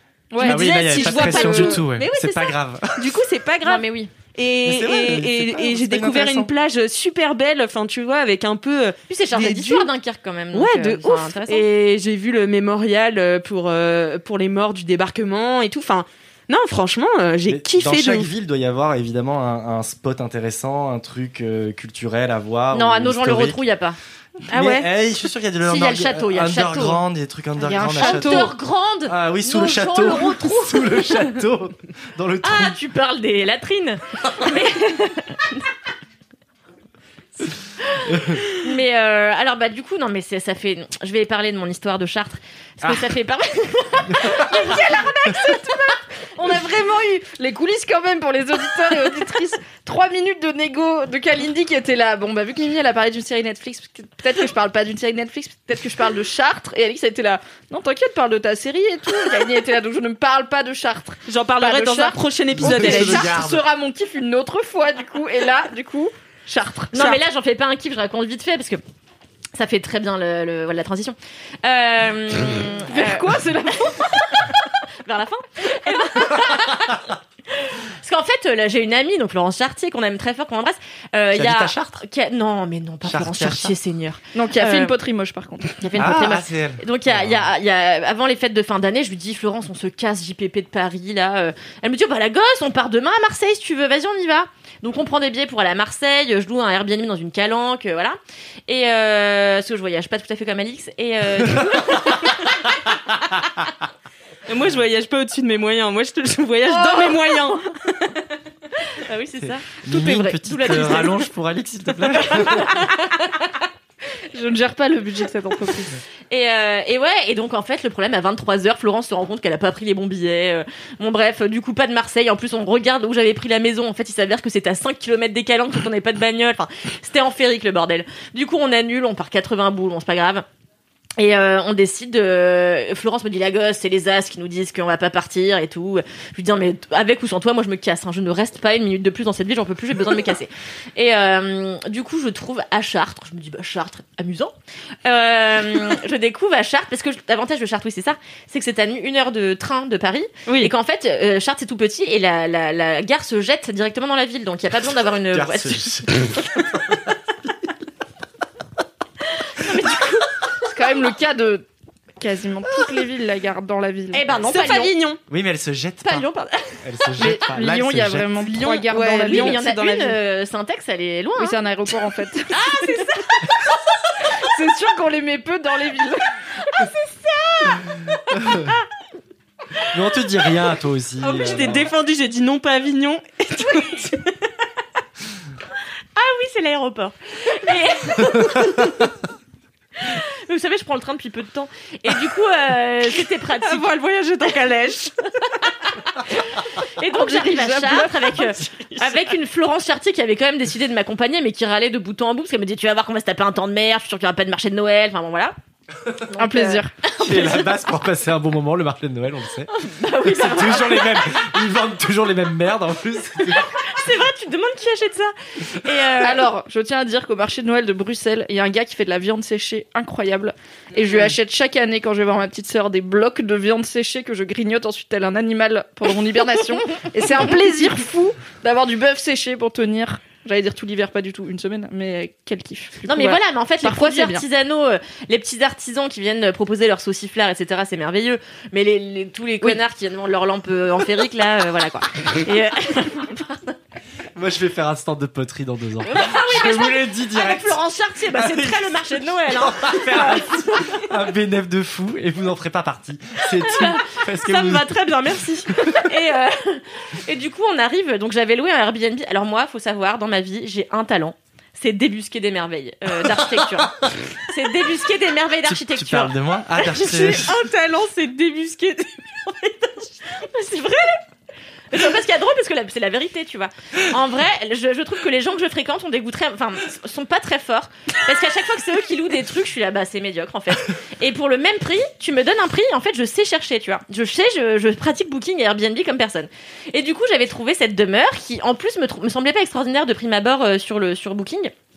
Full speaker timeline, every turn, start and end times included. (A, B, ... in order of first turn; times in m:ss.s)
0:00.3-0:01.8 A
0:00.4-0:03.1 B
0:00.4-0:09.9 C
0:03.7-0:04.1 D
0:04.6-0:06.5 B
0:09.1-0:11.7 D
0:10.5-0:18.3 C
0:17.5-0:23.6 B
0:22.7-0:24.0 D
0:24.5-0:28.5 B
0:24.5-0:24.9 C
0:25.6-0:27.0 D
0:27.6-0:28.5 A
0:27.8-0:31.3 D
0:29.1-0:32.8 B
0:32.4-0:35.6 D
0:37.8-0:45.6 D
0:38.1-0:38.4 B
0:44.5-1:06.9 A
1:01.3-1:03.4 C
1:02.6-1:03.6 B
1:06.9-1:07.2 C
1:06.9-1:08.8 D
1:09.6-1:14.5 D
1:12.9-1:14.4 A
1:15.0-1:17.0 D
1:17.5-1:25.0 D
1:21.3-1:22.0 B
1:23.1-1:23.7 B
1:24.3-1:25.8 A
1:25.8-1:42.3 D
1:26.0-1:27.4 B
1:44.5-1:47.8 C
1:46.7-1:47.2 D
1:48.8-1:51.3 D
1:49.4-1:52.8 B
1:52.1-1:53.6 D
1:54.3-1:56.0 A
1:56.3-2:10.4 D
2:11.2-2:24.5 D
2:25.0-2:36.3 D
2:30.5-2:30.7 C
2:35.3-2:36.4 B
2:39.6-2:40.3 D
2:40.7-2:41.7 A
2:42.2-2:44.2 A
2:44.1-2:44.9 D
2:44.5-2:45.2 C
2:45.3-2:46.3 B
2:46.0-2:47.2 D
2:46.8-2:48.4 B
2:47.2-2:49.6 A
2:48.4-2:50.2 C
2:49.3-2:51.6 D
2:51.4-2:52.6 A
2:52.5-2:53.5 D
2:54.4-2:56.4 A
2:56.8-2:57.6 D
2:59.9-3:01.9 B
3:01.2-3:04.3 C
3:01.4-3:01.8 D
3:06.2-3:09.1 D
3:10.0-3:13.9 D
3:13.6-3:15.1 C
3:15.6-3:25.6 D
3:17.1-3:18.6 A
3:26.2-3:27.8 D
3:26.4-3:26.9 A
3:27.2-3:29.7 B
3:29.7-3:31.6 D
3:30.2-3:33.6 B
3:33.4-3:36.5 D
3:36.2-3:54.4 A
3:41.0-3:41.3 D
3:53.0-4:03.8 D
4:04.4-4:07.8 B
4:06.0-4:11.2 D
4:08.3-4:08.9 B
4:09.6-4:14.9 B
4:13.6-4:26.4 D
4:25.7-4:27.5 B
4:26.8-4:30.1 C
4:30.4-4:31.2 D
4:31.9-4:51.7 D